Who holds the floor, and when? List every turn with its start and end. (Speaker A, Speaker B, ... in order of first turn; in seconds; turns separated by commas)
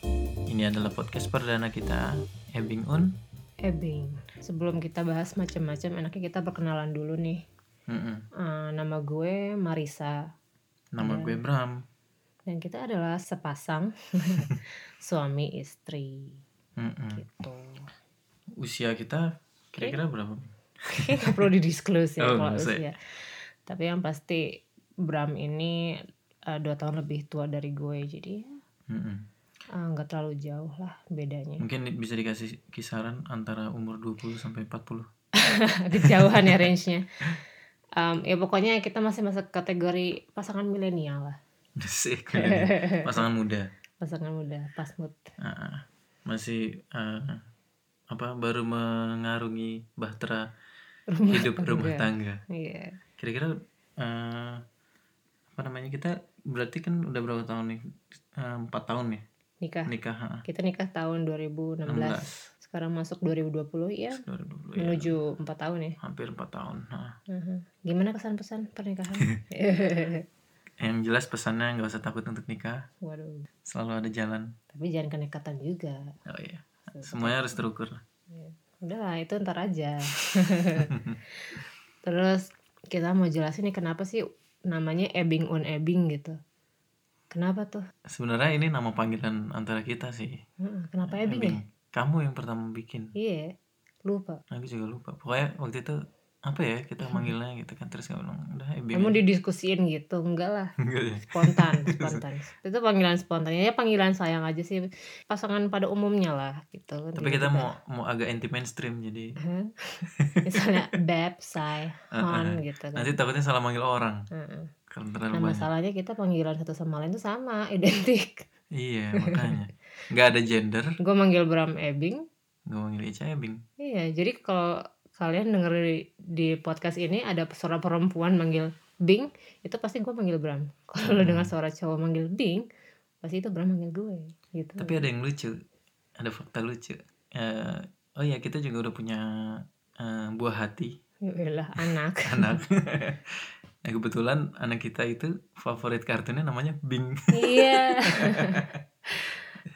Speaker A: 0.5-3.2, Speaker B: 3.6-7.4, Speaker A: 7.9-8.3, Speaker B: 8.4-10.2, Speaker A: 10.9-11.8, Speaker B: 11.0-11.4, Speaker B: 12.5-16.4, Speaker A: 16.8-17.2, Speaker B: 17.1-17.8, Speaker A: 18.6-21.4, Speaker B: 20.9-23.0, Speaker A: 22.2-22.9, Speaker B: 23.7-24.4, Speaker B: 25.1-25.8, Speaker B: 26.5-28.6, Speaker A: 28.9-29.3, Speaker B: 29.8-31.6, Speaker A: 31.6-35.1, Speaker B: 35.4-37.0, Speaker A: 36.0-36.6, Speaker B: 38.0-41.4, Speaker A: 41.8-43.7, Speaker B: 42.3-43.2, Speaker B: 44.0-45.3, Speaker A: 45.4-47.5, Speaker A: 48.1-50.5, Speaker B: 51.1-53.0, Speaker A: 51.3-52.4, Speaker A: 53.2-54.6, Speaker A: 55.6-57.8, Speaker A: 58.3-59.2, Speaker B: 59.6-59.9, Speaker A: 59.9-60.5, Speaker B: 60.5-64.2, Speaker A: 61.9-62.4, Speaker A: 64.1-65.2, Speaker B: 64.8-66.0, Speaker A: 66.0-67.1, Speaker B: 67.3-70.2, Speaker A: 70.8-72.8, Speaker B: 73.0-73.5, Speaker A: 73.7-74.5, Speaker B: 74.7-76.0, Speaker A: 76.3-78.0, Speaker B: 76.9-77.5, Speaker B: 78.3-80.9, Speaker A: 80.8-81.2, Speaker B: 82.0-86.4, Speaker B: 87.3-87.8, Speaker A: 88.1-90.4, Speaker B: 90.6-91.6, Speaker A: 91.1-93.1, Speaker B: 93.2-93.5, Speaker B: 94.0-94.4, Speaker A: 94.5-99.2, Speaker B: 97.0-97.3, Speaker B: 98.9-107.7, Speaker A: 100.8-102.2, Speaker A: 107.2-109.4, Speaker B: 109.4-113.1, Speaker A: 110.2-110.9, Speaker A: 112.1-114.3, Speaker B: 114.3-114.7, Speaker A: 114.9-115.7, Speaker B: 115.3-118.5, Speaker A: 118.8-121.0, Speaker B: 119.2-119.6, Speaker B: 121.0-122.2, Speaker A: 122.7-123.6, Speaker B: 123.8-132.6, Speaker A: 131.0-131.5, Speaker B: 133.2-135.1, Speaker A: 134.8-135.6, Speaker A: 136.2-140.9, Speaker B: 141.3-142.6, Speaker A: 141.8-148.8, Speaker B: 147.3-149.3